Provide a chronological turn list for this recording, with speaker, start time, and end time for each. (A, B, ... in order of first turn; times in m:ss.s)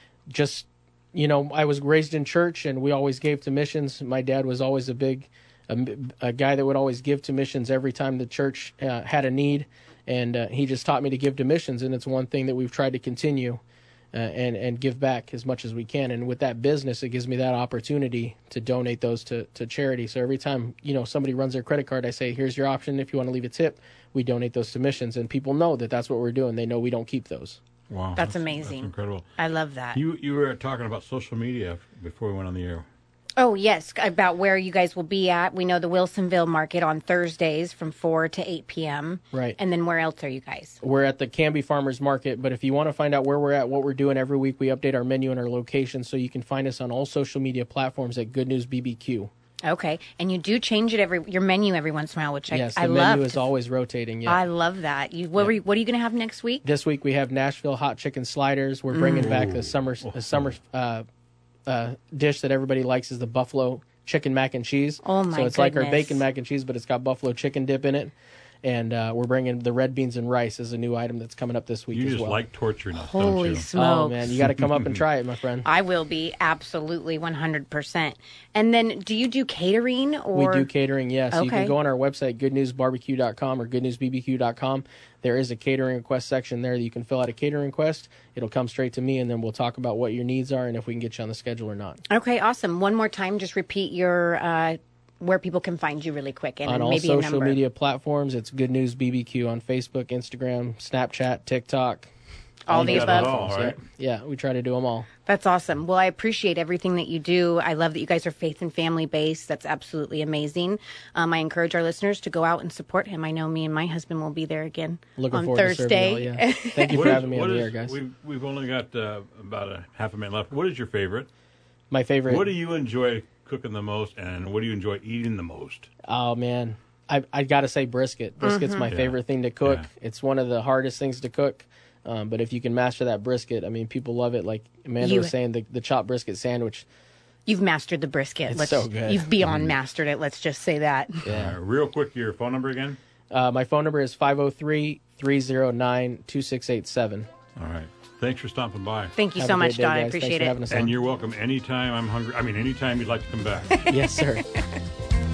0:00.3-0:13.6 A
0:14.1-0:27.6 A
0:27.9-0:29.3 B
0:28.2-0:30.0 C
0:29.9-0:32.8 B
0:33.4-0:40.8 C
0:40.8-0:49.3 A
0:49.6-0:53.4 C
0:52.5-0:54.4 A
0:54.2-0:56.6 C
0:56.6-1:01.0 A
0:58.9-0:59.4 C
0:59.4-1:00.5 B
1:01.6-1:12.4 A
1:05.0-1:06.2 C
1:11.9-1:13.7 B
1:12.9-1:14.3 C
1:13.7-1:15.7 A
1:14.6-1:15.0 B
1:15.6-1:20.7 C
1:20.3-1:32.0 A
1:21.3-1:21.8 C
1:32.1-1:37.6 C
1:36.6-1:42.1 A
1:42.6-1:43.4 C
1:42.7-1:45.1 A
1:42.7-1:43.8 B
1:45.2-1:57.2 C
1:55.2-1:58.0 A
1:56.9-2:01.3 B
2:01.9-2:02.5 A
2:02.3-2:05.9 B
2:06.1-2:16.8 A
2:08.4-2:08.9 C
2:08.9-2:09.9 B
2:15.0-2:15.3 C
2:17.5-2:21.2 C
2:18.5-2:19.3 A
2:21.2-2:21.6 A
2:21.3-2:23.0 B
2:23.3-2:27.3 A
2:27.6-2:29.1 B
2:29.2-2:30.6 C
2:29.4-2:30.9 A
2:30.7-2:33.8 B
2:33.8-2:34.1 C
2:33.8-2:34.5 A